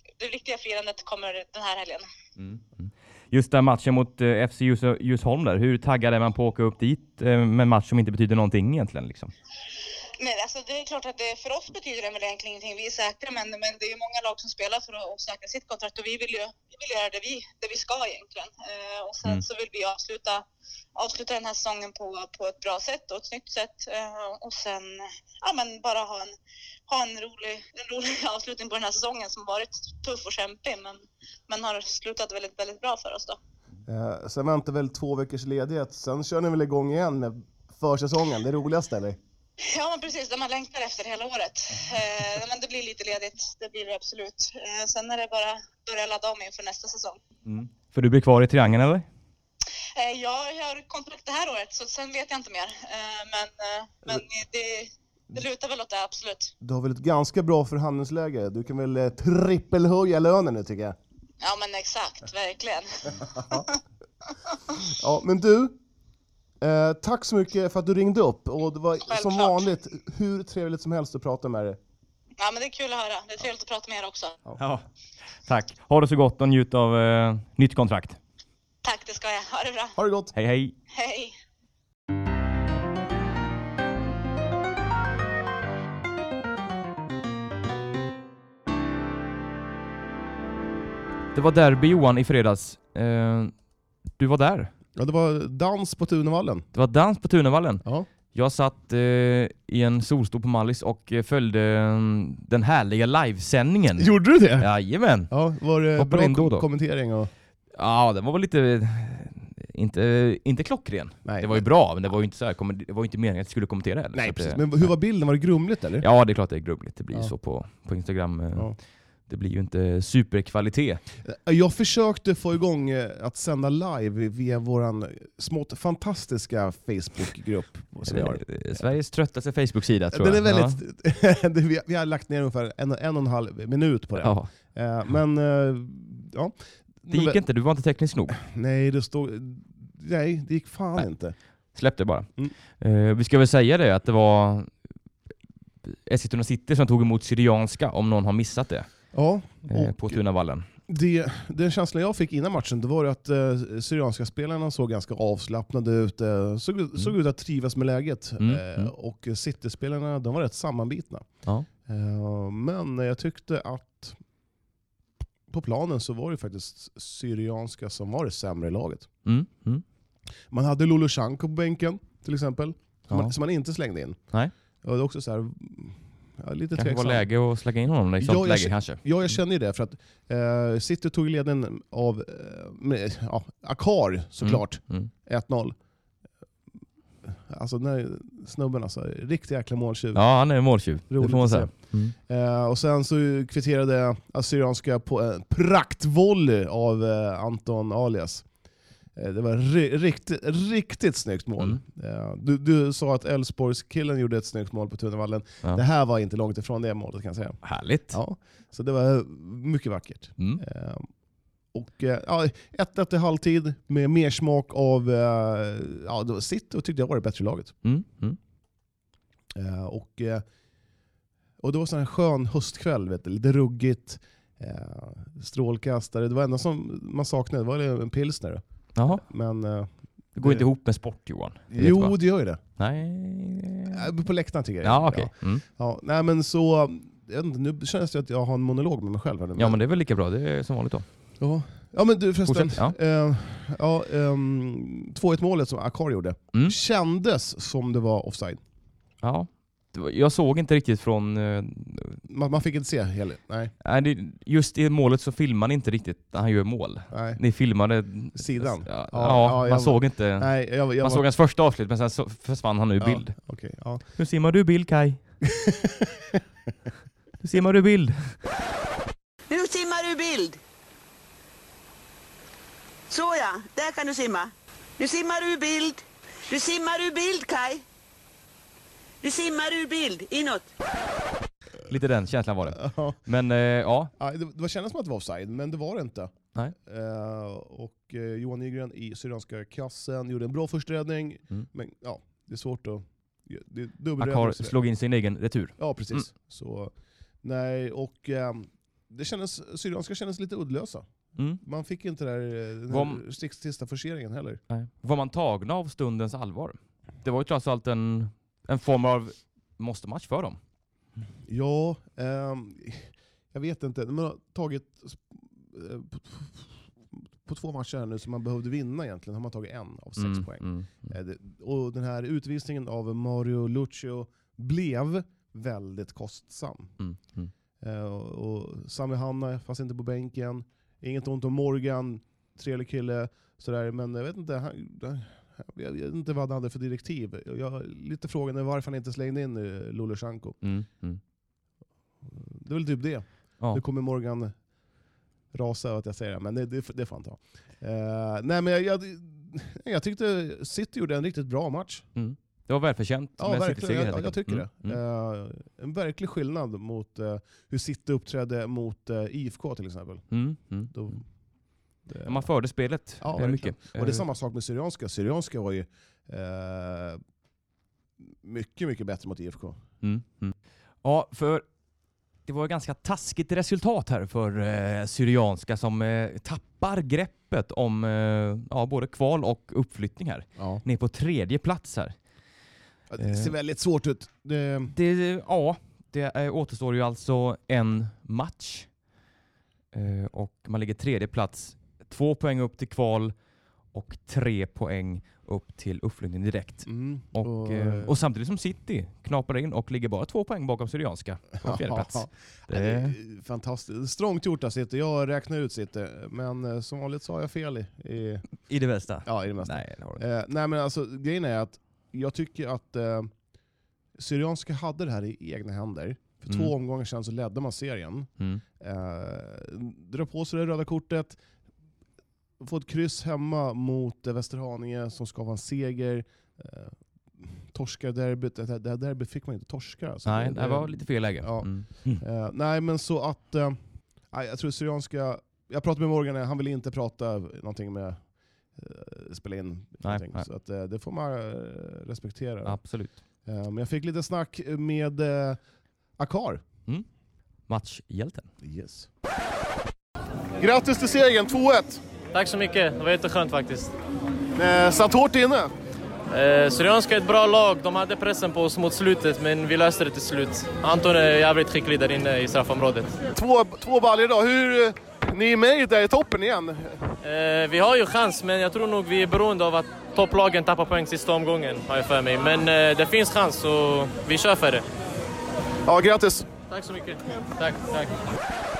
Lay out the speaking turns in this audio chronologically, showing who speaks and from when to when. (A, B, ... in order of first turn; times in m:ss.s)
0:00.2-0:02.1 A
0:02.4-0:09.3 B
0:10.2-0:26.3 A
0:26.9-0:33.4 A
0:33.8-0:39.2 C
0:39.7-0:47.2 A
0:47.4-0:49.0 B
0:50.0-0:56.5 A
0:56.6-1:01.0 C
1:01.4-1:03.7 A
1:03.3-1:03.6 C
1:04.9-1:05.8 C
1:06.6-1:11.8 C
1:09.1-1:09.7 A
1:12.4-1:14.4 A
1:14.6-1:14.8 B
1:15.5-1:18.2 B
1:18.8-1:20.0 A
1:20.0-1:20.3 C
1:20.4-1:20.7 B
1:20.9-1:21.3 A
1:31.3-1:33.5 B
1:34.1-1:34.7 B
1:35.0-1:36.6 C
1:36.7-1:45.3 B
1:44.0-1:44.7 C
1:45.3-1:47.3 C
1:46.0-1:46.6 B
1:47.7-1:54.9 B
1:51.2-1:51.6 C
1:54.1-1:56.0 C
1:56.0-2:01.0 B
2:01.2-2:08.8 C
2:08.0-2:10.8 B
2:10.1-2:17.4 C
2:14.2-2:14.5 B
2:17.1-2:18.4 B
2:18.3-2:21.3 C
2:21.7-2:22.3 B
2:22.8-2:24.7 B
2:26.0-2:28.9 B
2:29.1-2:30.2 C
2:29.7-2:30.6 B
2:30.9-2:41.3 C
2:38.4-2:38.9 B
2:41.8-2:44.2 C
2:45.5-2:49.1 C
2:49.2-2:49.8 B
2:50.5-2:54.2 C
2:53.1-2:53.3 B
2:54.8-2:57.2 C
2:56.7-2:59.0 B
2:58.2-3:05.7 C
3:04.4-3:05.1 B
3:07.2-3:10.2 C
3:10.1-3:12.1 B
3:11.1-3:11.7 C
3:12.2-3:18.4 C
3:19.2-3:27.6 C
3:27.6-3:28.2 B
3:28.1-3:31.1 C
3:31.7-3:37.7 C
3:37.8-3:38.4 B
3:39.5-3:40.4 C
3:41.6-3:50.6 C
3:49.0-3:49.2 B
3:50.4-3:52.2 B
3:51.7-3:52.6 C
3:52.8-3:54.1 B
3:53.9-3:59.8 C
3:54.8-3:55.6 B
3:59.6-4:01.0 B
4:01.4-4:08.6 C
4:02.5-4:03.0 B
4:09.2-4:12.2 B
4:12.2-4:13.7 C
4:13.8-4:23.4 B
4:17.1-4:17.4 C
4:18.4-4:21.2 C
4:23.0-4:24.0 C
4:24.2-4:25.2 B
4:25.5-4:26.4 C
4:27.4-4:28.4 B
4:29.5-4:30.6 D
4:33.1-4:37.8 D
4:39.2-4:40.7 D
4:41.9-4:44.1 B
4:42.8-4:43.2 C
4:44.2-4:54.8 C
4:54.2-4:56.2 B
4:55.8-5:01.1 C
5:01.6-5:04.6 C
5:02.9-5:03.2 B
5:04.7-5:10.6 B
5:11.5-5:26.9 C
5:20.2-5:21.1 B
5:27.0-5:27.5 B
5:27.8-5:40.6 C
5:40.6-5:41.2 B
5:42.3-5:44.5 C
5:45.5-5:52.0 C
5:52.2-5:55.0 B
5:53.4-6:00.2 C
6:00.3-6:00.9 B
6:00.9-6:01.2 C
6:02.1-6:02.5 C
6:02.2-6:04.2 B
6:03.2-6:07.2 C
6:08.2-6:09.8 C
6:10.0-6:11.6 B
6:12.4-6:22.1 B
6:20.6-6:20.8 C
6:23.1-6:24.9 C
6:23.2-6:23.5 B
6:24.9-6:28.9 B
6:29.9-6:33.3 B
6:33.9-6:43.2 B
6:36.8-6:38.1 C
6:41.6-6:48.5 C
6:48.7-6:50.2 B
6:49.2-6:53.3 C
6:54.2-7:01.4 C
7:02.6-7:13.8 C
7:10.2-7:12.2 B
7:14.3-7:18.2 C
7:18.7-7:22.8 C
7:20.0-7:20.4 B
7:22.6-7:23.2 B
7:23.4-7:25.6 C
7:26.2-7:26.6 C
7:27.7-7:28.5 B
7:28.6-7:29.1 C
7:30.6-7:32.0 C
7:32.3-7:33.9 E
7:34.6-7:35.7 C
7:36.3-7:43.2 E
7:43.3-7:47.1 C
7:47.2-7:54.8 E
7:55.8-7:56.5 C
7:56.7-7:58.2 E